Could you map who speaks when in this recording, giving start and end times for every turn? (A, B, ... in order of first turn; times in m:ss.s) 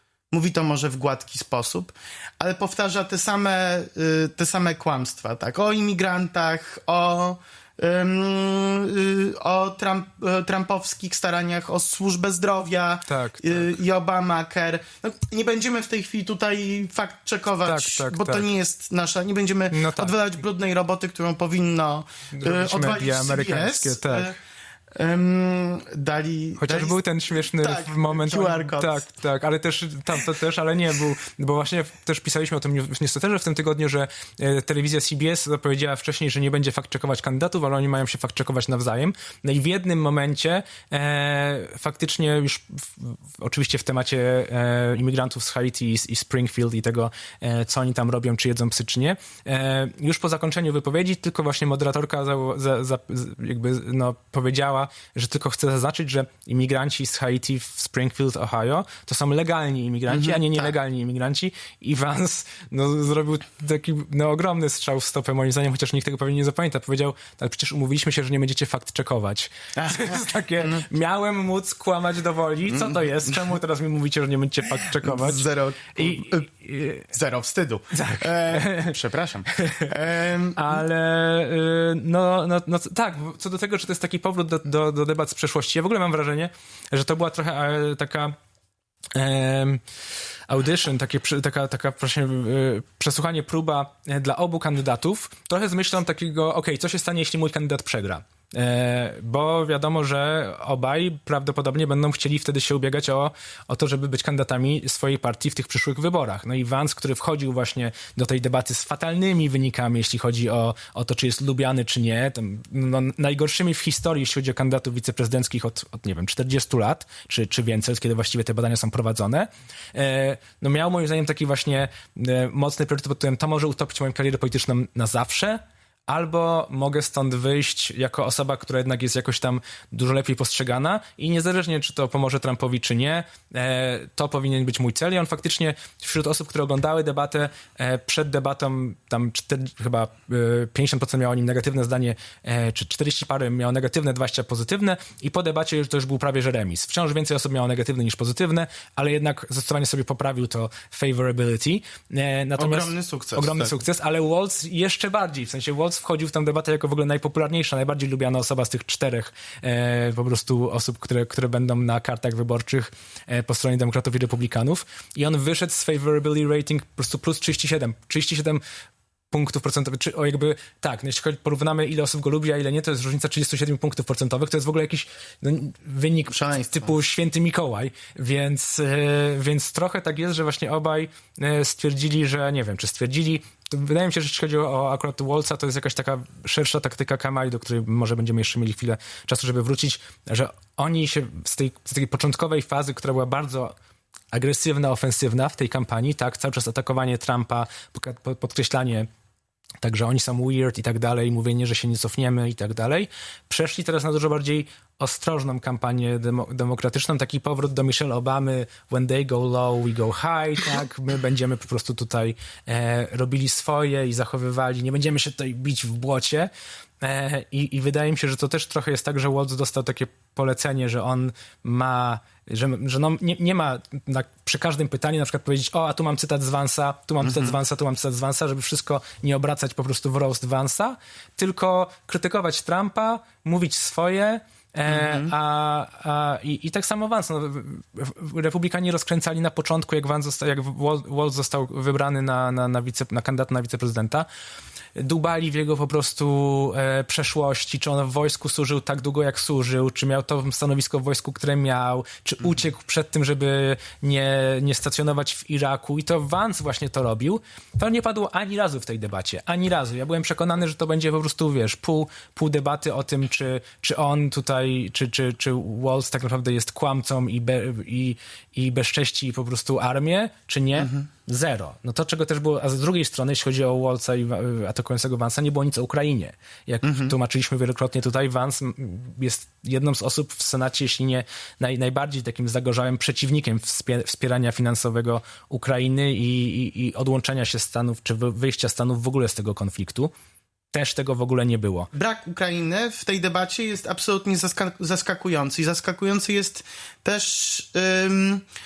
0:00.3-0:24.3 A
0:13.1-0:13.7 B
0:17.6-0:18.4 B
0:19.7-0:20.1 B
0:22.3-0:24.3 B
0:24.9-0:29.0 A
0:26.6-1:17.1 B
1:00.1-1:00.7 A
1:09.8-1:10.8 A
1:12.7-1:13.3 A
1:15.0-1:16.5 A
1:17.1-1:20.8 A
1:17.9-1:19.0 B
1:19.5-1:19.9 B
1:20.5-1:28.4 B
1:29.1-1:29.8 B
1:30.5-2:48.6 B
2:32.6-2:33.7 A
2:49.3-3:13.7 B
2:56.3-2:56.9 A
3:14.3-3:19.1 B
3:19.8-3:36.5 B
3:37.0-4:04.3 B
3:47.2-3:47.6 A
3:54.9-3:55.3 A
4:05.0-4:50.1 B
4:30.8-4:31.0 A
4:36.8-4:37.1 A
4:50.7-4:51.9 B
4:51.9-4:58.4 A